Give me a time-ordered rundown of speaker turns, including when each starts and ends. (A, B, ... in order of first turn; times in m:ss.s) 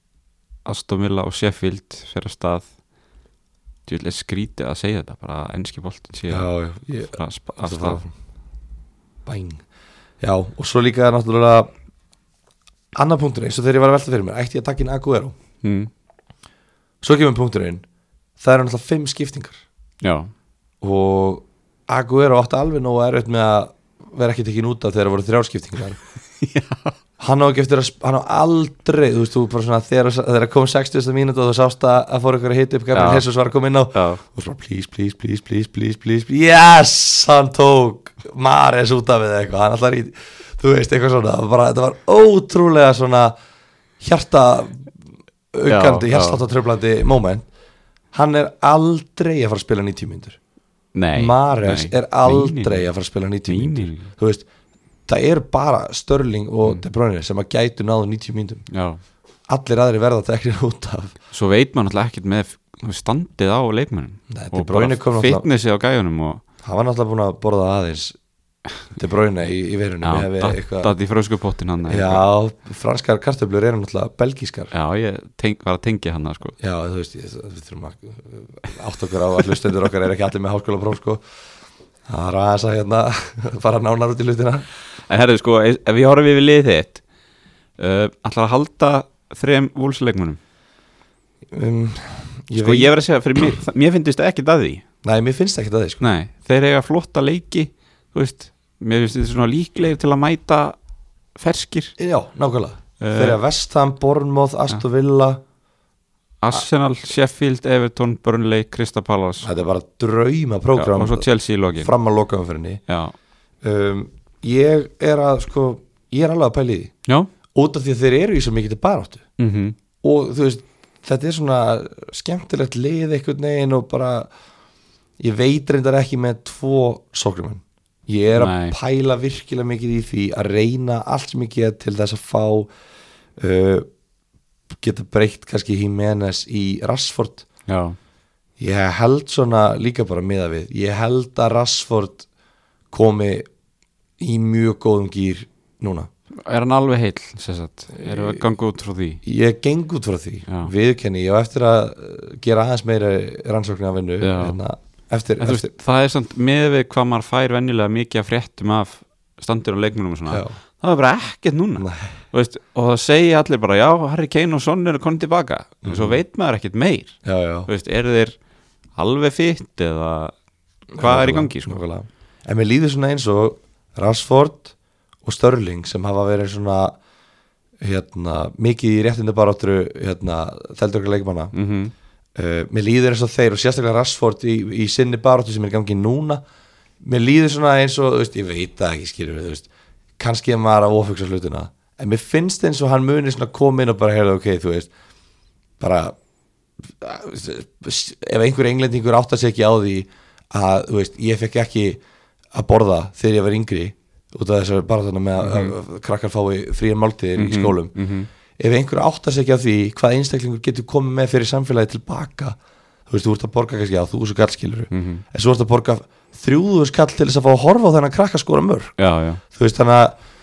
0:00.6-0:02.7 A
0:03.9-0:06.5 A
0:06.3-0:08.1 B
0:07.1-0:08.0 A
0:09.3-0:09.6 B
0:10.2-0:11.7 B
0:13.0-0:15.4 B
0:15.6-0:15.9 A
0:17.0-0:17.8 B
0:18.4-0:19.6 B
0:20.0-0:20.3 A
0:20.8-0:26.0 B
0:26.4-0:27.0 A
0:27.2-0:43.3 B
0:32.9-0:33.2 A
0:33.9-0:34.2 A
0:44.0-0:44.9 B
0:45.5-0:47.5 B
0:45.7-0:46.4 A
0:48.1-0:50.4 B
0:51.0-0:52.9 A
0:51.2-0:54.4 B
0:53.5-0:54.1 A
0:55.1-0:58.6 B
0:58.7-0:59.0 A
0:59.5-1:01.1 B
1:01.3-1:06.4 A
1:04.3-1:05.4 B
1:06.6-1:08.2 B
1:08.9-1:10.9 B
1:10.0-1:12.2 A
1:11.9-1:14.7 B
1:14.7-1:16.6 A
1:16.6-1:21.2 B
1:22.1-1:24.7 B
1:25.1-1:27.0 A
1:27.8-1:30.4 A
1:31.5-1:32.9 B
1:32.6-1:34.8 A
1:35.0-1:36.0 B
1:36.0-1:40.8 A
1:41.4-1:42.0 A
1:42.0-1:45.4 B
1:43.0-1:43.4 A
1:46.4-1:49.5 A
1:49.4-1:51.3 B
1:50.8-1:51.9 A
1:51.8-1:52.8 B
1:52.9-1:53.1 A
1:53.6-1:56.9 B
1:57.5-1:59.2 B
1:59.4-1:59.8 A
2:00.0-2:04.3 B
2:05.2-2:12.7 B
2:08.4-2:08.8 A
2:13.4-2:13.9 B
2:14.8-2:17.4 B
2:17.7-2:18.0 A
2:18.6-2:22.3 B
2:22.9-2:23.5 B
2:24.2-2:26.1 B
2:26.5-2:29.2 A
2:28.0-2:28.4 B
2:29.2-2:35.7 B
2:30.5-2:30.7 A
2:34.2-2:34.6 A
2:35.4-2:48.4 A
2:40.3-2:40.5 B
2:41.8-2:42.1 B
2:45.8-2:46.2 B
2:47.2-2:47.7 B
2:49.0-2:50.4 A
2:51.0-2:54.7 B
2:51.0-2:51.8 A
2:55.2-2:57.0 B
2:57.8-3:01.5 B
3:01.5-3:01.9 A
3:02.4-3:06.4 B
3:07.0-3:09.7 B
3:10.2-3:14.9 B
3:15.8-3:16.2 B
3:16.8-3:22.0 B
3:22.5-3:27.9 B
3:25.4-3:25.8 A
3:27.4-3:28.3 A
3:28.6-3:32.6 B
3:33.1-3:39.0 B
3:34.9-3:35.2 A
3:39.0-3:39.4 A
3:39.5-3:40.2 B